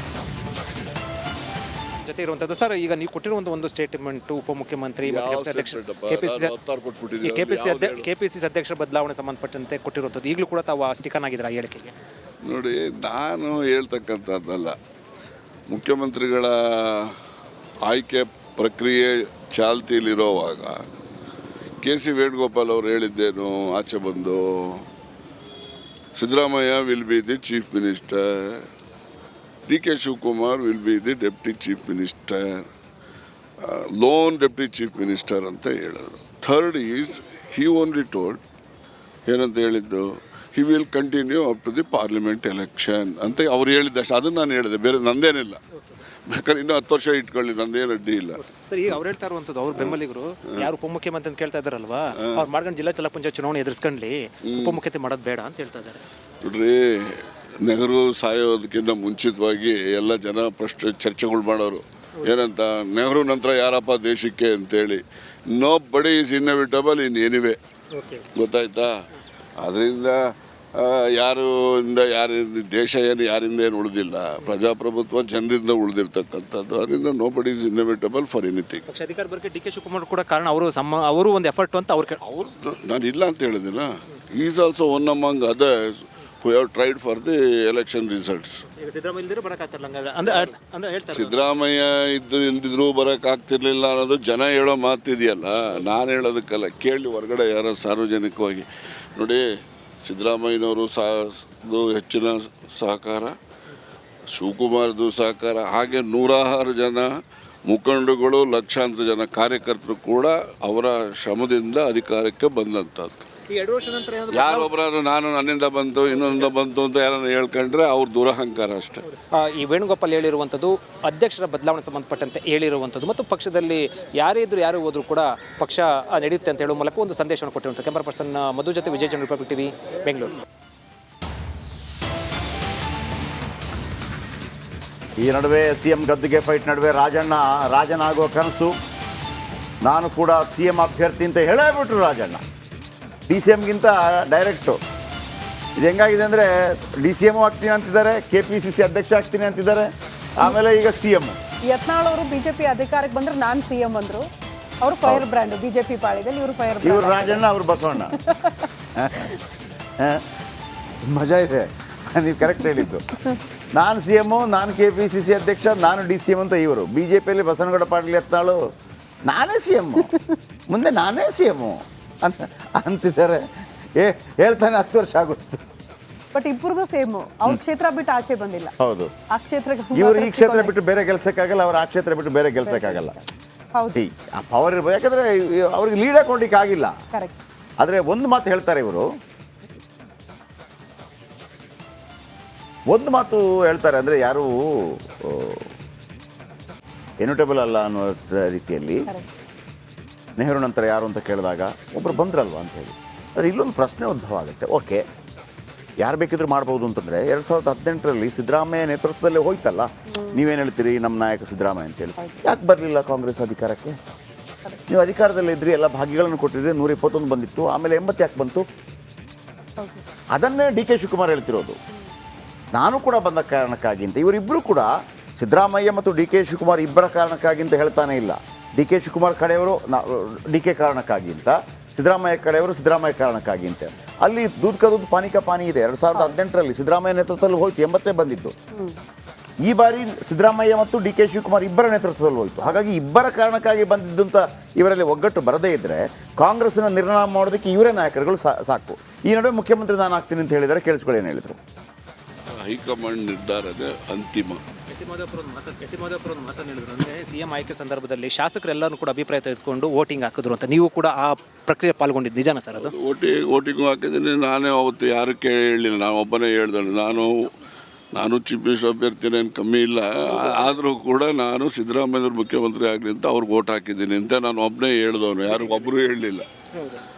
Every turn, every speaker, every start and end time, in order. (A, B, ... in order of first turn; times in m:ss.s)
0:02.0-0:06.5 A
0:05.0-0:08.1 B
0:07.2-0:11.9 A
0:12.4-0:14.8 B
0:15.7-0:17.2 B
0:17.8-0:20.8 B
0:21.8-0:24.9 B
0:26.2-0:28.7 B
0:29.7-0:32.7 B
0:33.6-0:38.4 B
0:39.2-0:45.6 B
0:46.3-0:48.4 B
0:48.4-0:56.0 A
0:54.4-0:54.8 B
0:56.4-1:07.6 B
1:07.9-1:08.2 A
1:08.3-1:08.9 B
1:09.6-1:18.8 B
1:18.9-1:22.2 A
1:22.2-1:28.6 B
1:28.7-1:31.4 A
1:31.1-1:39.4 B
1:40.0-1:43.4 B
1:44.3-1:47.1 B
1:47.7-1:53.2 B
1:53.5-1:54.7 A
1:54.3-1:59.0 B
1:59.4-2:10.4 A
2:15.2-2:18.7 C
2:19.8-2:22.4 C
2:23.3-2:24.8 C
2:25.8-2:31.4 C
2:31.7-2:34.3 D
2:34.8-2:37.4 D
2:36.8-2:38.2 C
2:38.2-2:38.7 D
2:39.0-2:39.3 C
2:40.0-2:40.3 C
2:41.0-2:43.0 C
2:43.8-2:48.6 C
2:49.3-2:50.1 C
2:50.7-2:55.6 C
2:56.3-2:58.7 D
2:58.8-2:59.1 C
2:59.4-3:00.7 D
2:59.9-3:03.2 C
3:02.6-3:03.1 D
3:03.9-3:06.9 C
3:07.8-3:09.1 C
3:12.9-3:15.7 C
3:17.2-3:19.1 C
3:20.4-3:25.0 C
3:26.0-3:34.0 C
3:34.9-3:38.6 C
3:40.3-3:41.8 C
3:42.7-3:58.6 C
3:59.6-4:11.6 C
4:12.5-4:14.6 B
4:14.9-4:22.9 A
4:22.7-4:27.5 B
4:28.1-4:36.5 B
4:30.3-4:30.7 A
4:35.5-4:35.8 A
4:36.7-4:37.0 A